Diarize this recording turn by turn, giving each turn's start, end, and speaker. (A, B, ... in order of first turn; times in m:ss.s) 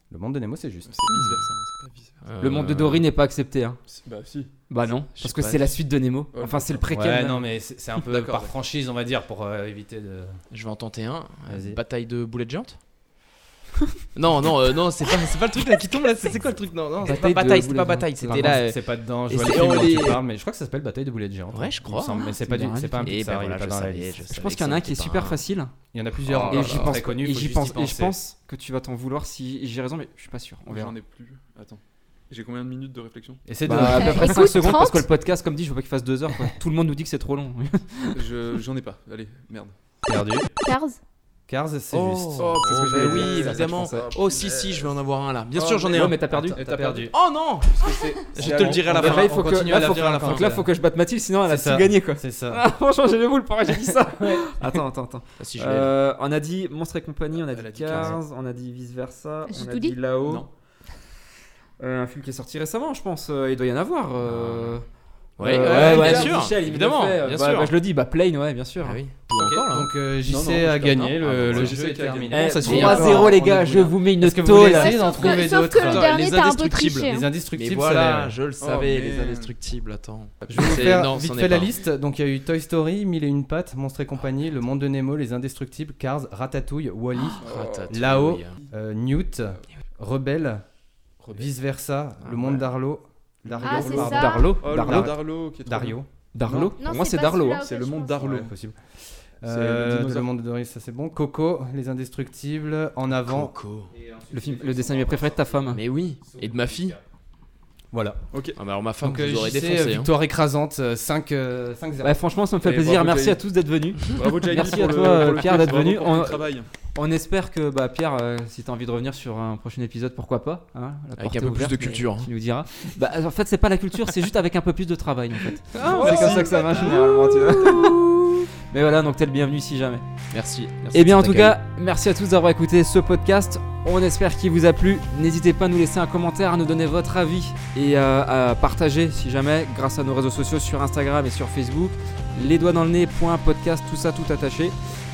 0:00.1-0:01.0 A
0:00.9-0:02.2 B
0:02.2-0:03.1 C
0:02.4-0:03.8 D
0:03.9-0:04.5 B
0:04.7-0:07.4 D
0:05.0-0:05.8 C
0:06.3-0:06.8 B
0:06.9-0:10.4 A
0:08.1-0:08.5 B
0:10.5-0:12.8 C
0:11.5-0:11.8 A
0:14.1-0:20.2 C
0:17.0-0:17.3 A
0:17.0-0:18.6 D
0:18.3-0:24.2 A
0:21.5-0:22.3 C
0:22.4-0:23.1 D
0:23.0-0:25.4 C
0:24.3-0:25.7 D
0:25.9-0:28.2 A
0:26.2-0:27.0 C
0:26.5-0:30.9 D
0:30.7-0:33.4 B
0:33.5-0:34.4 A
0:33.7-0:38.2 D
0:33.8-0:35.1 E
0:38.2-0:39.7 B
0:40.0-0:40.5 A
0:40.6-0:41.0 E
0:41.5-0:42.6 A
0:41.9-0:46.3 C
0:42.4-0:44.1 D
0:42.4-0:44.7 B
0:45.5-0:46.8 D
0:46.0-0:47.1 A
0:47.0-0:49.6 C
0:47.7-0:49.1 B
0:48.4-0:50.7 A
0:48.8-1:00.5 D
0:50.1-0:50.5 C
0:51.5-0:52.6 A
0:53.9-0:54.4 A
0:55.4-0:55.9 C
0:57.4-0:58.2 B
0:59.5-1:00.0 E
1:01.8-1:04.9 D
1:04.2-1:04.8 C
1:05.4-1:07.7 C
1:05.4-1:09.0 D
1:05.5-1:06.4 B
1:08.8-1:09.9 C
1:09.3-1:18.4 A
1:10.2-1:12.5 B
1:11.2-1:11.8 C
1:12.3-1:15.0 D
1:12.5-1:14.0 C
1:12.7-1:13.2 E
1:14.7-1:17.3 E
1:15.2-1:16.3 C
1:17.5-1:21.7 C
1:18.6-1:19.5 B
1:20.4-1:21.1 B
1:20.5-1:30.6 A
1:27.4-1:28.6 C
1:27.4-1:28.0 B
1:31.2-1:31.5 B
1:31.3-1:36.7 A
1:32.2-1:32.6 C
1:33.5-1:33.9 B
1:33.6-1:34.5 E
1:33.8-1:35.1 D
1:34.6-1:36.7 B
1:36.3-1:37.6 D
1:36.8-1:38.4 E
1:37.5-1:38.5 B
1:38.2-1:38.8 A
1:39.4-1:47.0 A
1:39.5-1:40.3 B
1:43.3-1:43.9 C
1:44.3-1:45.8 D
1:45.7-1:47.0 C
1:47.9-1:48.2 A
1:48.6-1:50.1 C
1:49.0-1:52.2 A
1:52.0-2:10.0 D
1:52.6-1:53.4 B
1:54.1-1:56.7 B
2:01.2-2:02.3 C
2:05.7-2:06.9 C
2:05.9-2:06.6 B
2:07.7-2:08.0 C
2:10.3-2:11.6 C
2:10.9-2:24.8 D